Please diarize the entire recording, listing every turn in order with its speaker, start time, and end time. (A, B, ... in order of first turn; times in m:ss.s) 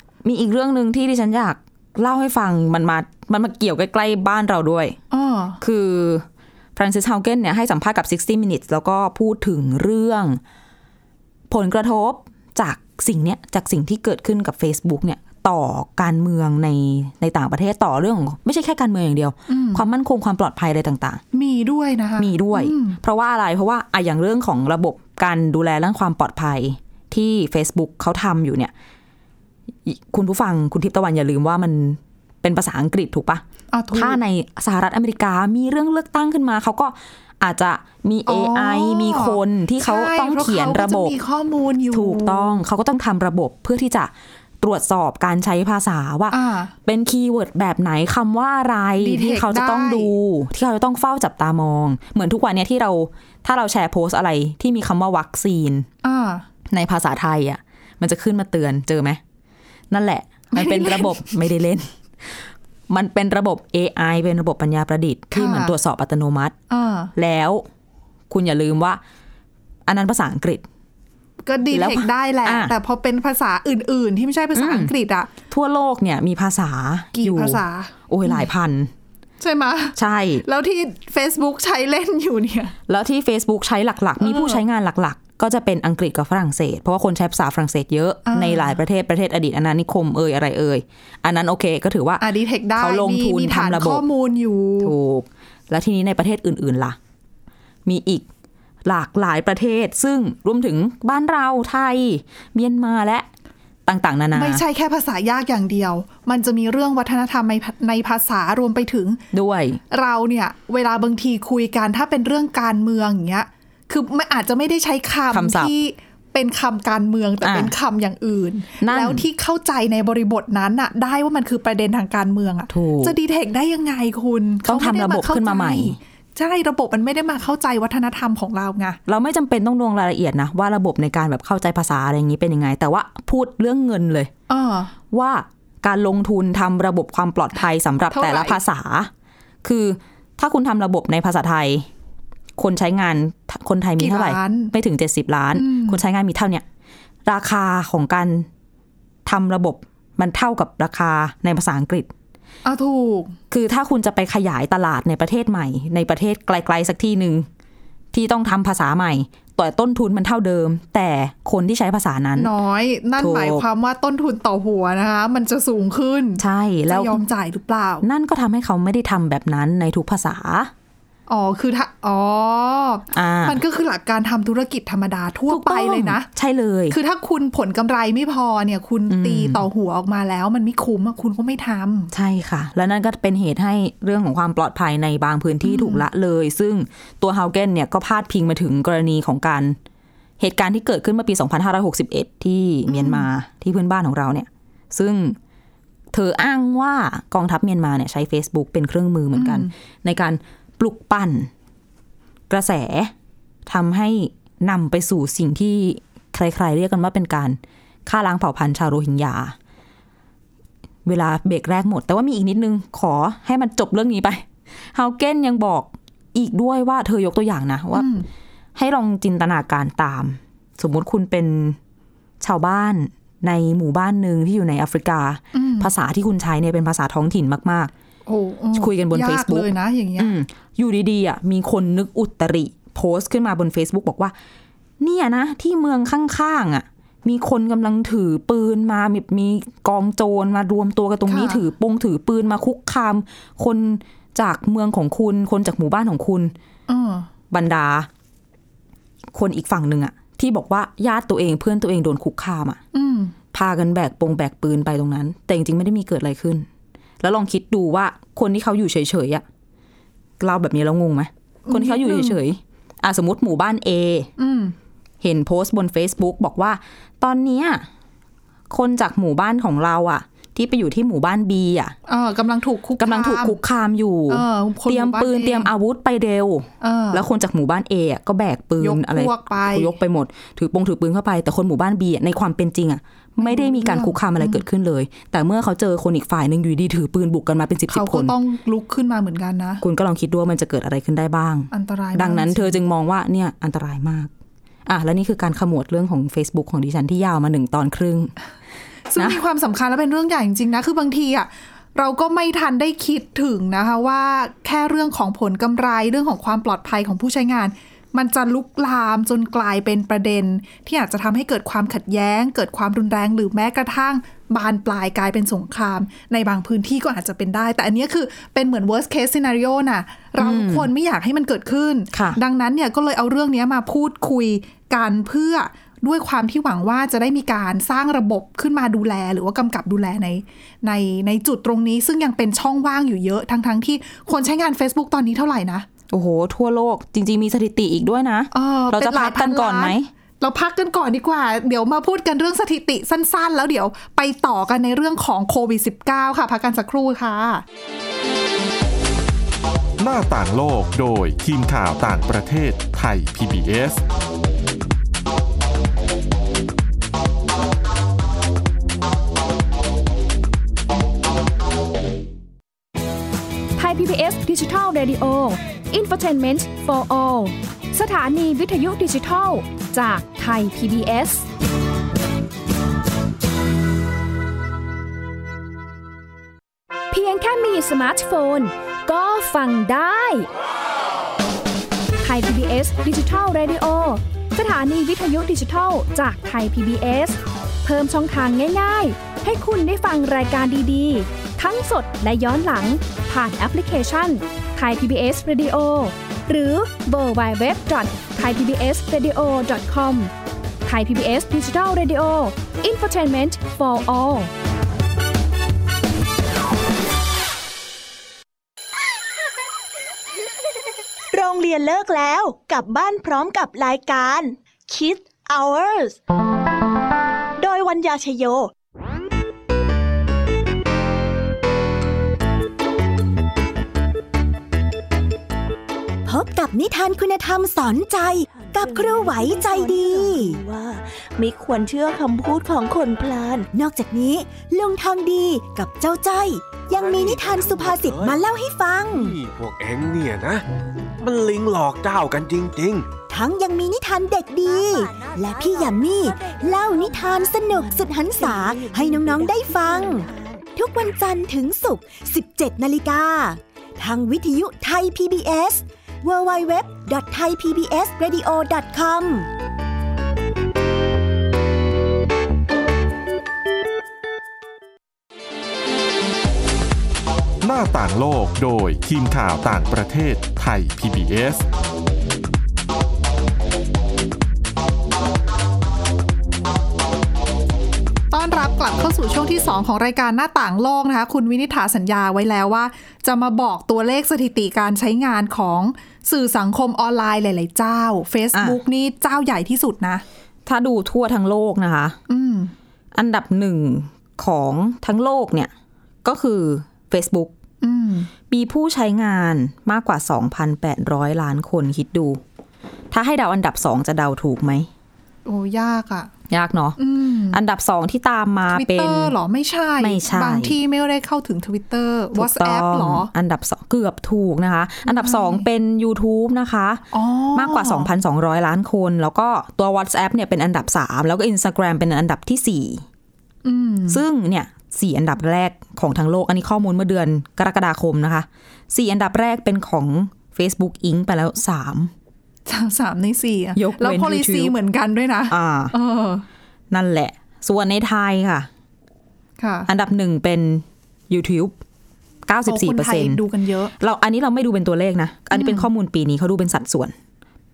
0:00.2-0:05.0 A
0:05.1-0:05.6 B
0:05.6-0:10.4 A
0:11.5-0:21.2 A
0:19.5-0:19.8 B
0:21.3-0:23.0 B
0:22.2-0:28.7 A
0:29.8-0:41.1 A
0:33.7-0:34.2 B
0:38.2-0:42.6 B
0:41.9-0:55.9 A
0:46.3-0:46.7 B
0:49.0-0:50.1 B
0:56.0-0:56.4 B
0:56.7-0:59.2 A
0:59.9-1:01.9 A
1:00.5-1:01.2 B
1:02.9-1:06.6 A
1:05.3-1:05.7 B
1:06.7-1:07.1 B
1:07.1-1:07.6 A
1:08.3-1:09.0 A
1:09.8-1:10.6 A
1:11.4-1:15.3 B
1:11.7-1:12.7 A
1:14.5-1:14.9 A
1:15.5-1:18.9 A
1:17.1-1:18.4 B
1:19.4-1:22.7 B
1:20.0-1:20.4 A
1:22.9-1:32.2 A
1:24.2-1:24.6 B
1:28.2-1:28.8 B
1:32.2-1:34.9 B
1:32.8-1:34.0 A
1:34.8-1:37.0 A
1:37.8-1:38.2 A
1:38.8-1:43.3 A
1:43.8-1:44.6 A
1:44.3-1:49.2 B
1:49.3-1:49.8 A
1:49.9-2:09.0 B
1:55.3-1:55.7 A
1:57.4-1:57.7 A
1:58.8-1:59.2 A
2:02.7-2:03.1 A
2:04.6-2:06.0 A
2:09.1-2:14.3 A
2:14.5-2:14.9 B
2:15.1-2:19.1 A
2:18.1-2:18.6 B
2:19.6-2:21.9 A
2:22.6-2:26.6 A
2:24.0-2:24.7 B
2:25.5-2:26.0 B
2:27.2-2:28.5 A
2:29.2-2:32.1 A
2:32.6-2:33.4 B
2:33.5-2:37.5 A
2:38.1-2:42.5 A
2:42.4-2:48.0 B
2:43.2-2:43.6 A
2:46.4-2:47.2 A
2:48.0-2:50.7 A
2:51.3-2:56.3 B
2:53.1-2:53.6 A
2:55.5-2:57.0 A
2:56.9-3:02.1 B
2:59.1-2:59.6 A
3:02.1-3:09.8 A
3:05.6-3:06.0 B
3:10.4-3:15.4 A
3:12.9-3:13.3 B
3:16.1-3:21.5 A
3:19.3-3:19.7 B
3:22.5-3:23.1 A
3:23.6-3:29.6 A
3:31.0-3:38.1 A
3:37.9-3:38.3 B
3:38.7-3:41.8 A
3:42.4-3:47.9 A
3:45.5-3:45.9 B
3:48.3-3:50.3 B
3:48.7-3:54.3 A
3:55.0-4:06.5 A
4:01.3-4:01.6 B
4:06.9-4:07.3 B
4:07.5-4:08.1 A
4:09.3-4:12.8 A
4:12.9-4:13.3 B
4:13.5-4:16.7 A
4:17.2-4:19.4 A
4:20.4-4:24.3 A
4:21.6-4:22.4 B
4:24.4-4:24.7 B
4:25.2-4:27.8 A
4:28.7-4:32.0 A
4:32.1-4:33.6 B
4:33.0-4:48.3 A
4:34.3-4:35.7 B
4:36.8-4:37.2 B
4:38.8-4:40.0 B
4:43.4-4:44.6 B
4:47.9-4:49.8 B
4:49.8-4:54.3 A
4:51.7-4:52.8 B
4:54.8-4:58.3 A
4:59.1-5:35.8 B
5:20.4-5:20.9 A
5:22.1-5:22.4 A
5:36.1-5:40.1 A
5:38.5-5:47.6 B
5:50.0-5:54.0 C
6:03.8-6:11.5 D
6:17.1-6:20.5 D
6:22.2-6:40.3 D
6:40.8-6:44.5 D
6:51.3-6:56.2 E
6:57.6-6:58.7 E
7:06.2-7:10.6 F
7:08.8-7:13.7 E
7:13.7-7:19.4 F
7:16.9-7:18.4 G
7:19.1-7:20.6 G
7:21.2-7:23.1 G
7:23.3-7:39.5 F
7:28.4-7:29.5 E
7:30.2-7:30.5 E
7:47.6-7:51.6 C
7:58.3-8:10.2 B
8:08.5-8:08.8 A
8:10.6-8:12.2 A
8:12.3-8:12.7 B
8:13.1-8:15.7 A
8:16.2-8:17.5 A
8:17.8-8:18.3 B
8:18.5-8:22.4 A
8:23.1-8:24.9 A
8:25.4-8:26.3 B
8:26.5-8:27.0 A
8:27.0-8:27.6 B
8:27.5-8:29.3 A
8:28.7-8:33.3 B
8:30.0-8:30.8 A
8:32.3-8:43.0 A
8:35.0-8:35.6 B
8:37.1-8:38.1 B
8:43.6-8:44.2 B
8:44.1-8:52.1 A
8:52.7-8:56.4 B
8:53.7-8:54.7 A
8:55.5-8:55.9 A
8:56.9-8:58.7 A
8:59.6-8:59.9 B
8:59.9-9:01.8 A
9:02.4-9:03.4 A
9:02.6-9:03.9 B
9:04.0-9:07.1 A
9:05.5-9:05.9 B